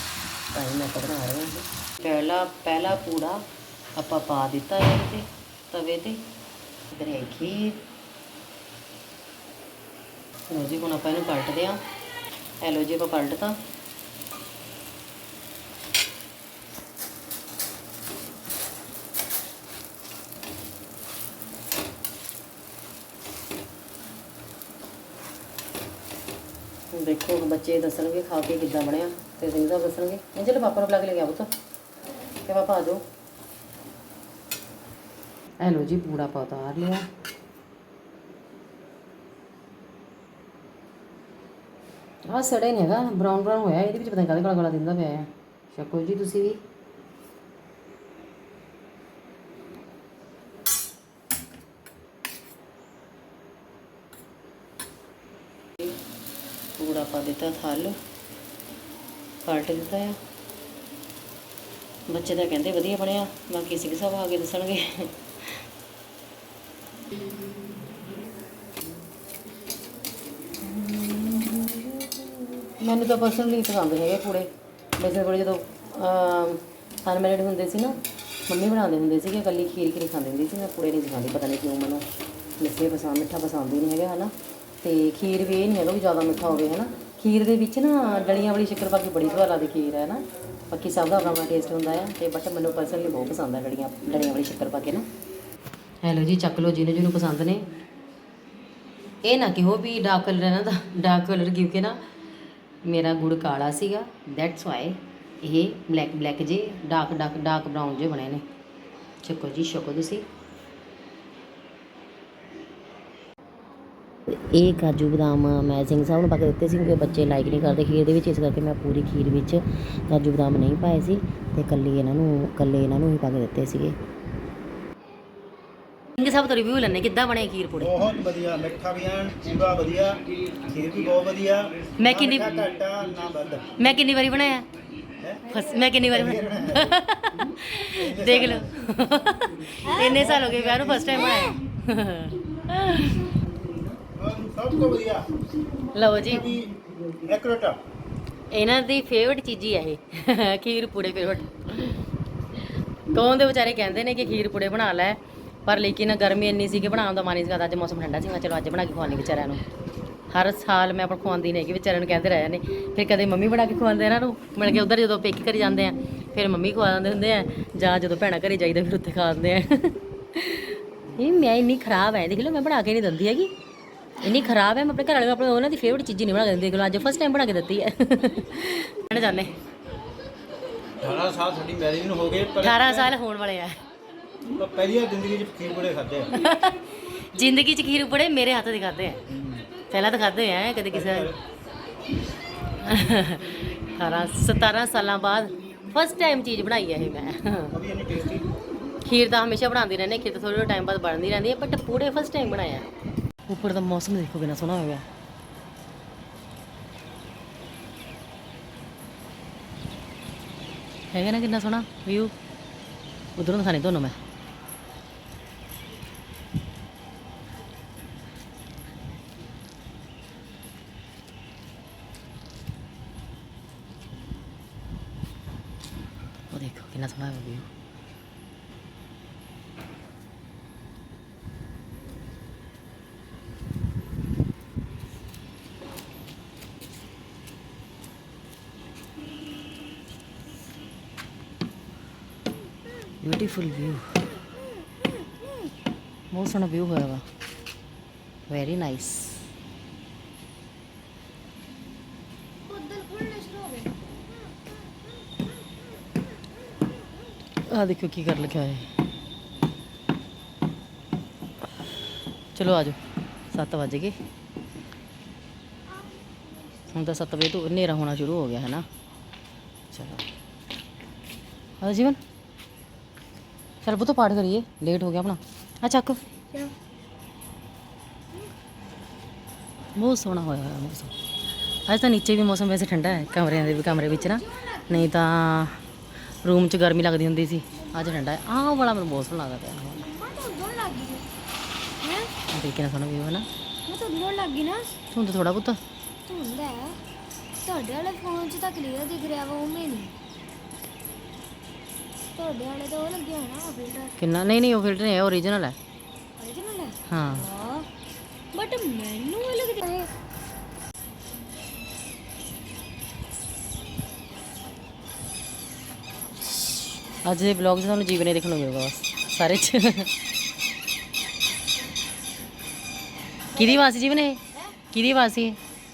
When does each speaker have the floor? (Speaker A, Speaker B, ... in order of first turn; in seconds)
Speaker A: 0.5-6.2, 6.9-7.8, 10.5-11.8, 12.6-13.6, 26.9-31.5, 32.4-33.0, 35.6-37.0, 42.3-46.6, 56.8-58.0, 59.4-60.2, 62.1-65.6, 70.6-82.0, 82.6-95.0, 96.0-97.7, 99.2-102.0, 102.8-108.5, 109.2-110.3, 114.3-124.0, 126.2-128.1, 132.0-132.6, 133.8-134.6, 135.4-143.3, 145.9-146.6, 148.5-152.0, 153.1-159.6, 160.3-173.5, 174.2-179.6, 182.6-183.8, 186.3-189.2, 189.9-191.3, 192.8-197.8, 199.0-202.9, 203.5-205.1, 211.1-212.3, 213.3-214.2, 226.5-227.7, 243.2-244.3, 246.3-247.2, 248.5-249.5, 257.7-258.9, 262.5-263.0, 263.5-264.2, 266.9-268.9, 269.9-270.2, 271.8-272.2, 273.8-276.2, 279.9-281.1, 281.9-285.8, 286.4-290.1, 292.5-293.5, 295.1-295.8, 304.2-305.7, 307.1-307.5, 317.2-320.1, 323.5-325.6
Speaker B: 127.8-133.7, 136.0-136.9, 137.9-138.7, 140.2-141.2, 144.1-145.3, 147.1-147.8, 181.0-183.1, 184.5-186.3, 191.0-191.3, 197.7-198.5
Speaker C: 135.5-135.9, 139.8-140.2, 141.1-141.6, 245.0-245.7, 252.6-254.5, 283.8-285.0, 290.0-291.2, 292.0-292.3, 293.9-294.9, 296.3-297.0, 297.6-300.1, 302.4-304.1, 306.4-307.9, 308.5-310.1